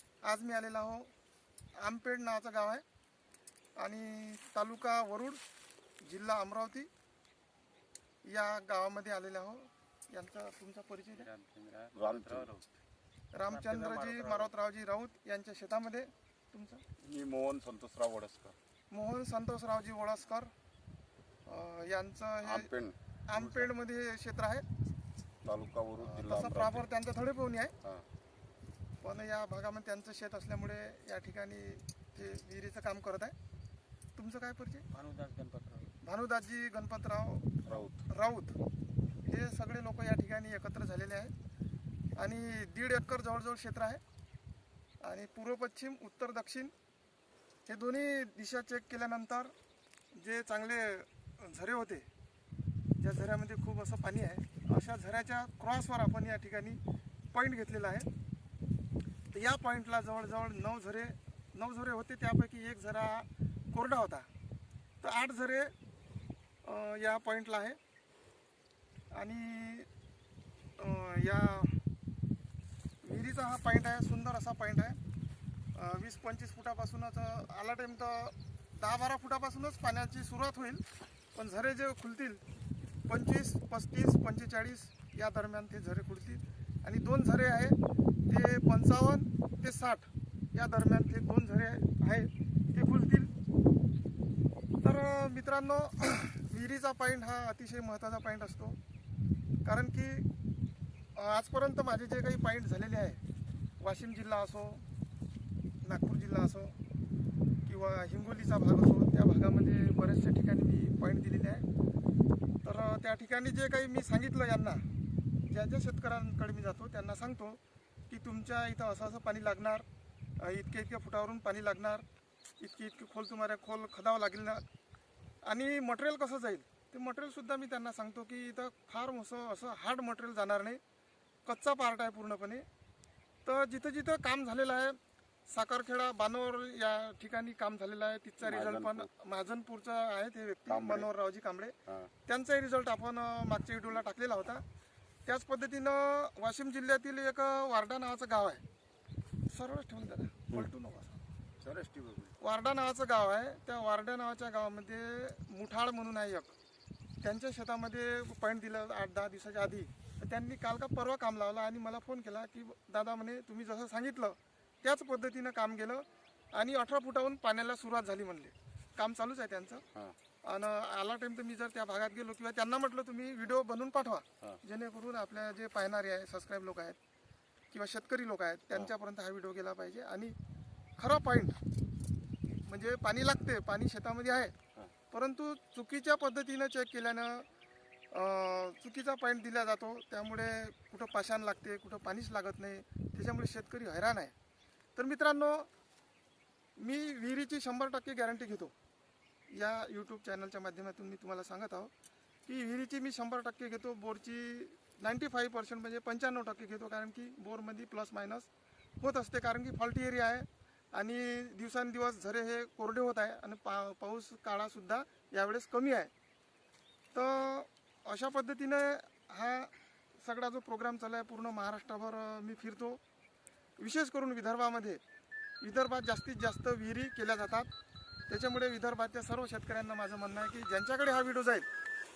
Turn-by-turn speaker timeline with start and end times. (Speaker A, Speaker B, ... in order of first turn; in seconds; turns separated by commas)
Speaker A: 0.2-1.1, Speaker A: 1.7-2.8, Speaker A: 3.8-5.4, Speaker A: 6.0-6.9, Speaker A: 8.2-11.3, Speaker B: 11.2-12.6, Speaker C: 11.9-12.5, Speaker A: 13.3-16.8, Speaker B: 13.5-14.5, Speaker C: 17.0-18.6, Speaker A: 18.9-20.5, Speaker A: 21.4-22.7, Speaker C: 22.4-23.7, Speaker A: 23.3-24.6, Speaker C: 25.4-26.8, Speaker A: 26.0-27.7, Speaker A: 29.0-33.3, Speaker A: 34.1-34.9, Speaker B: 34.9-35.9, Speaker A: 36.0-38.5, Speaker C: 37.7-38.0, Speaker A: 39.2-41.3, Speaker A: 42.1-44.0, Speaker A: 45.0-46.7, Speaker A: 47.6-49.5, Speaker A: 50.1-52.1, Speaker A: 53.0-56.8, Speaker A: 57.3-58.1, Speaker A: 59.3-64.3, Speaker A: 65.0-65.7, Speaker A: 66.6-67.8, Speaker A: 69.1-69.9, Speaker A: 70.8-71.8, Speaker A: 73.0-75.0, Speaker A: 75.7-82.4, Speaker A: 83.1-93.3, Speaker A: 94.8-98.8, Speaker A: 99.6-100.3, Speaker A: 101.1-103.2, Speaker A: 103.8-104.8, Speaker A: 105.8-106.7, Speaker A: 107.6-111.7, Speaker A: 112.6-114.8, Speaker A: 115.5-119.8, Speaker A: 120.4-122.0, Speaker A: 122.6-124.6, Speaker A: 125.4-130.8, Speaker A: 131.4-132.6, Speaker A: 133.4-144.6, Speaker C: 138.4-139.1, Speaker C: 140.7-141.1, Speaker A: 145.2-148.6, Speaker A: 149.5-151.2, Speaker C: 151.6-152.3, Speaker A: 152.4-156.5, Speaker A: 157.2-169.8, Speaker A: 170.4-177.0, Speaker A: 177.7-180.3, Speaker A: 181.0-181.6, Speaker A: 182.6-184.5, Speaker A: 185.1-187.5, Speaker A: 188.1-194.3, Speaker A: 194.9-195.7, Speaker A: 196.8-198.7, Speaker A: 199.5-201.9, Speaker A: 202.4-208.5, Speaker A: 209.0-216.1, Speaker A: 217.1-223.0, Speaker A: 223.8-225.0, Speaker A: 225.6-227.7, Speaker A: 228.3-231.7